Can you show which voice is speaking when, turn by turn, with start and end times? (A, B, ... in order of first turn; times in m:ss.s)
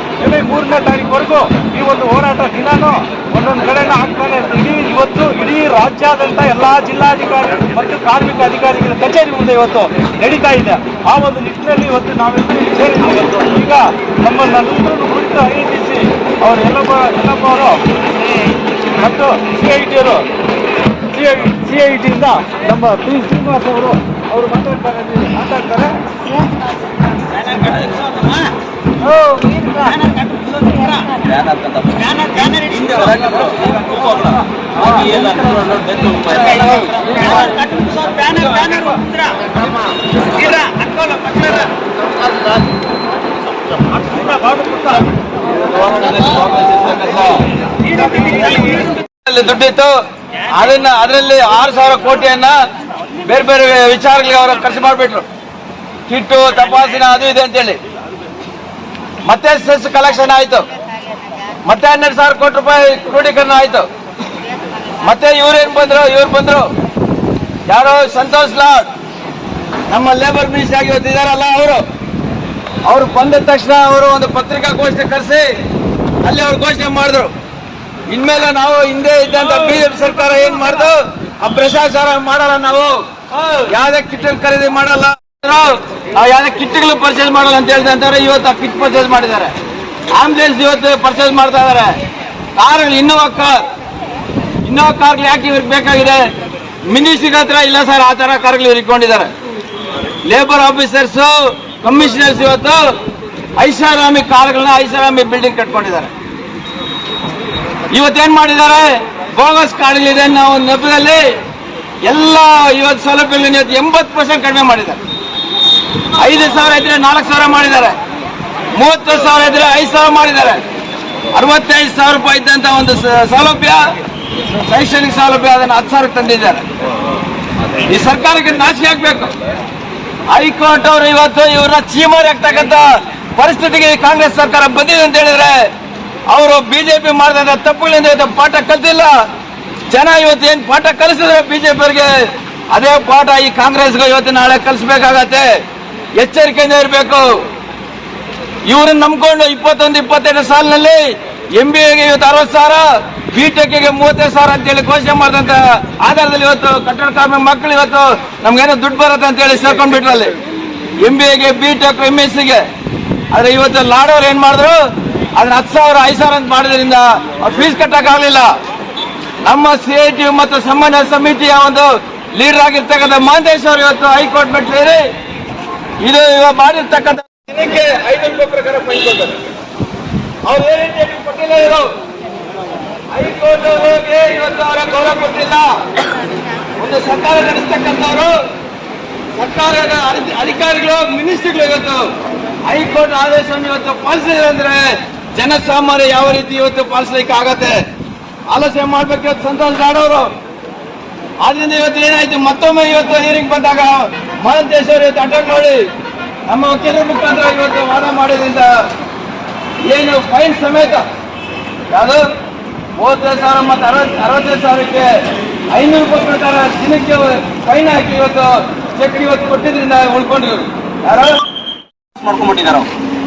0:00.2-0:17.8 A
0:18.9-0:20.2 A
0:21.1-0:26.0 A
0:27.5-0:28.4 B
0:29.0-0:30.0 A
0:31.2-0:37.6 B
0:38.0-0:39.0 A
0:43.9-0:45.1 A
0:45.8-0:46.6 A
0:45.9-0:46.9 B
0:48.0-0:48.9 A
0:49.1-0:49.9 C
0:50.5-0:52.5 C
0:53.2-0:55.2 C
0:56.1-0:57.8 C
0:59.2-1:00.6 C
1:01.6-1:03.9 C
1:05.0-1:06.7 C
1:07.7-1:08.9 C
1:09.9-1:11.8 C
1:12.9-1:15.5 C
1:16.2-1:17.3 C
1:18.1-1:23.0 C
1:23.6-1:29.5 C
1:30.1-1:31.9 C
1:32.6-1:33.6 C
1:34.6-1:36.2 C
1:36.9-1:39.3 C
1:40.2-1:42.8 C
1:43.6-1:46.1 C
1:47.9-1:51.2 C
1:52.0-1:55.0 C
1:56.2-1:57.9 C
1:58.7-2:00.6 C
2:01.3-2:03.8 C
2:04.6-2:06.6 C
2:07.8-2:09.3 C
2:10.3-2:12.8 C
2:13.4-2:15.7 C
2:16.3-2:19.1 C
2:19.9-2:25.6 C
2:26.2-2:27.4 C
2:28.7-2:40.3 C
2:41.0-2:42.6 C
2:43.3-2:44.8 C
2:45.3-2:48.5 C
2:49.4-2:55.0 C
2:56.0-2:59.5 C
3:00.4-3:01.8 C
3:03.1-3:05.7 C
3:06.8-3:08.3 C
3:09.4-3:12.1 C
3:12.7-3:17.8 C
3:18.5-3:20.3 C
3:21.4-3:25.8 C
3:26.5-3:28.7 C
3:29.9-3:31.0 C
3:31.9-3:32.2 C
3:33.0-3:35.1 C
3:35.7-3:41.4 C
3:42.1-3:42.9 B